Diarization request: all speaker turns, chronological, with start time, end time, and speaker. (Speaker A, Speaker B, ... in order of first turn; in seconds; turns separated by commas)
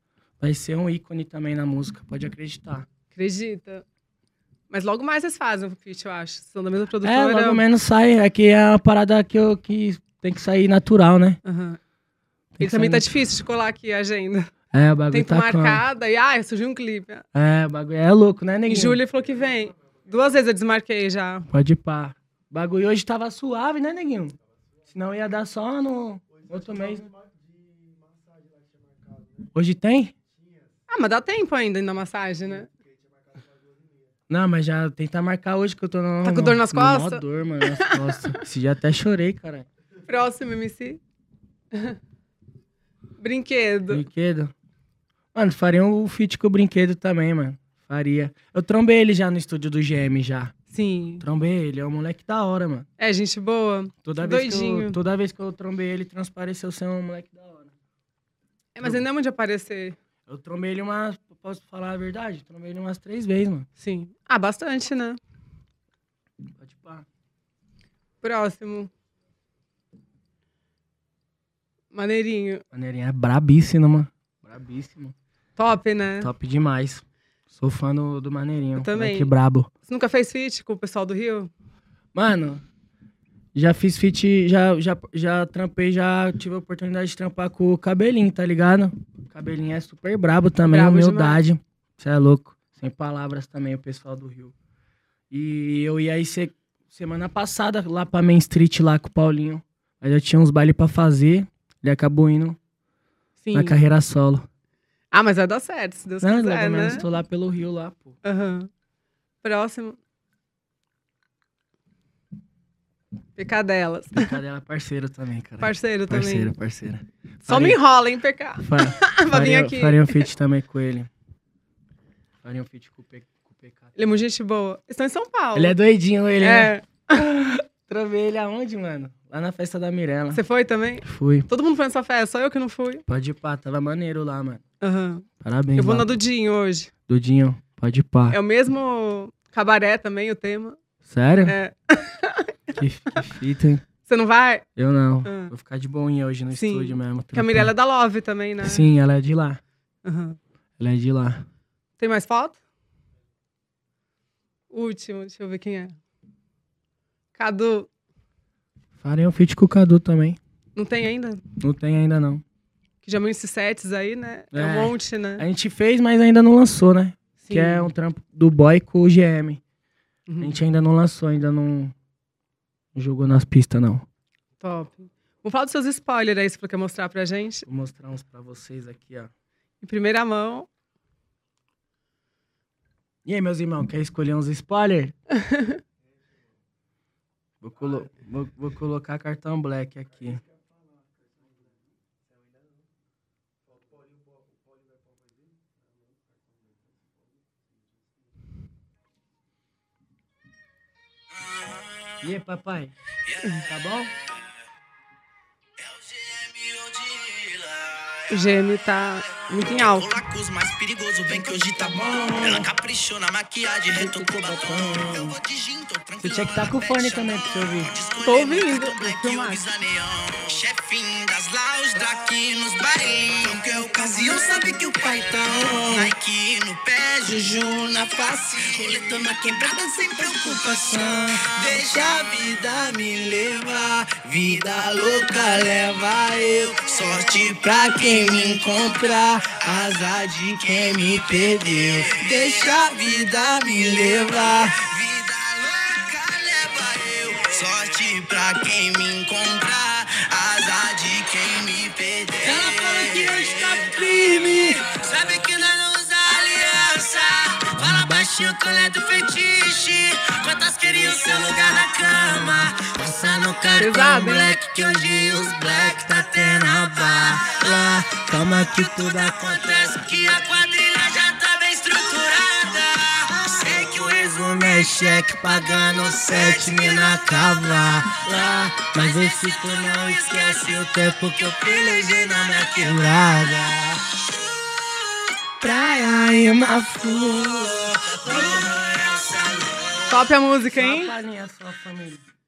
Speaker A: 0.4-2.9, Speaker B: 3.1-3.8, Speaker B: 4.7-7.6, Speaker A: 7.0-11.4, Speaker B: 11.4-11.8, Speaker A: 12.6-13.1, Speaker B: 12.6-14.5, Speaker A: 14.7-15.8, Speaker B: 15.1-17.2, Speaker A: 17.3-19.0, Speaker B: 18.7-21.5, Speaker A: 21.5-24.4, Speaker A: 24.9-27.1, Speaker A: 29.5-30.1, Speaker B: 30.9-32.7, Speaker A: 34.3-39.7, Speaker B: 36.2-38.4, Speaker B: 40.0-41.0, Speaker B: 41.7-42.0, Speaker B: 43.2-44.0, Speaker A: 43.9-44.5, Speaker A: 45.3-50.5, Speaker B: 50.7-51.2, Speaker A: 51.2-52.9, Speaker B: 53.0-55.0, Speaker A: 54.0-57.7, Speaker B: 58.7-60.0, Speaker A: 60.3-63.7, Speaker B: 63.8-65.2, Speaker A: 66.6-67.0, Speaker B: 68.2-68.9, Speaker B: 71.9-72.6, Speaker A: 72.7-75.1, Speaker B: 75.6-76.3, Speaker A: 76.2-79.7, Speaker B: 78.8-79.3, Speaker B: 79.8-81.5, Speaker A: 82.1-82.6, Speaker A: 83.5-94.5, Speaker B: 90.6-91.4, Speaker A: 95.3-102.6, Speaker B: 103.4-103.8, Speaker A: 103.5-104.5, Speaker B: 105.1-107.0, Speaker A: 106.2-108.2, Speaker B: 108.2-108.7, Speaker B: 109.4-110.0, Speaker B: 113.3-114.4, Speaker A: 114.1-117.8, Speaker B: 115.6-116.5, Speaker B: 117.4-120.3, Speaker A: 118.6-121.1, Speaker A: 122.4-123.9, Speaker B: 124.0-125.8, Speaker A: 125.5-130.4, Speaker B: 126.4-127.2, Speaker B: 130.3-133.0, Speaker A: 131.0-131.5, Speaker A: 133.1-134.6, Speaker B: 134.8-136.9, Speaker A: 135.4-136.1, Speaker A: 137.1-138.4, Speaker B: 138.3-140.8, Speaker A: 141.0-141.6, Speaker B: 141.4-142.8, Speaker A: 142.7-143.8, Speaker B: 144.1-144.7, Speaker A: 144.8-147.7, Speaker B: 145.2-145.5, Speaker B: 146.5-148.8, Speaker A: 148.6-149.6, Speaker B: 150.0-150.4, Speaker A: 150.8-151.4, Speaker B: 152.0-152.6, Speaker B: 154.7-155.9, Speaker B: 157.3-157.9, Speaker A: 159.0-160.4, Speaker B: 160.8-161.4, Speaker A: 161.6-162.4, Speaker B: 163.0-165.4, Speaker A: 164.5-169.6, Speaker B: 167.4-167.9, Speaker B: 170.3-170.5, Speaker A: 170.4-171.9, Speaker A: 172.9-174.1, Speaker B: 174.6-177.7, Speaker A: 177.7-179.3, Speaker B: 179.8-180.7, Speaker A: 183.2-185.1, Speaker B: 185.3-185.8, Speaker A: 187.6-190.4, Speaker C: 201.4-202.2, Speaker A: 202.2-202.9, Speaker C: 203.3-203.7, Speaker A: 203.6-204.1, Speaker C: 205.8-208.6, Speaker B: 208.3-210.1, Speaker C: 209.2-283.7, Speaker A: 211.5-212.7, Speaker A: 213.9-215.3, Speaker A: 216.2-217.9, Speaker B: 218.2-219.6, Speaker A: 223.6-226.1, Speaker A: 228.8-232.1, Speaker A: 235.7-236.8, Speaker A: 237.3-244.7, Speaker A: 252.4-254.8, Speaker A: 257.8-259.0, Speaker A: 260.8-270.2, Speaker B: 263.8-264.6, Speaker A: 273.6-284.0, Speaker A: 285.6-289.7, Speaker C: 288.2-290.1, Speaker B: 290.1-291.1, Speaker A: 290.7-292.2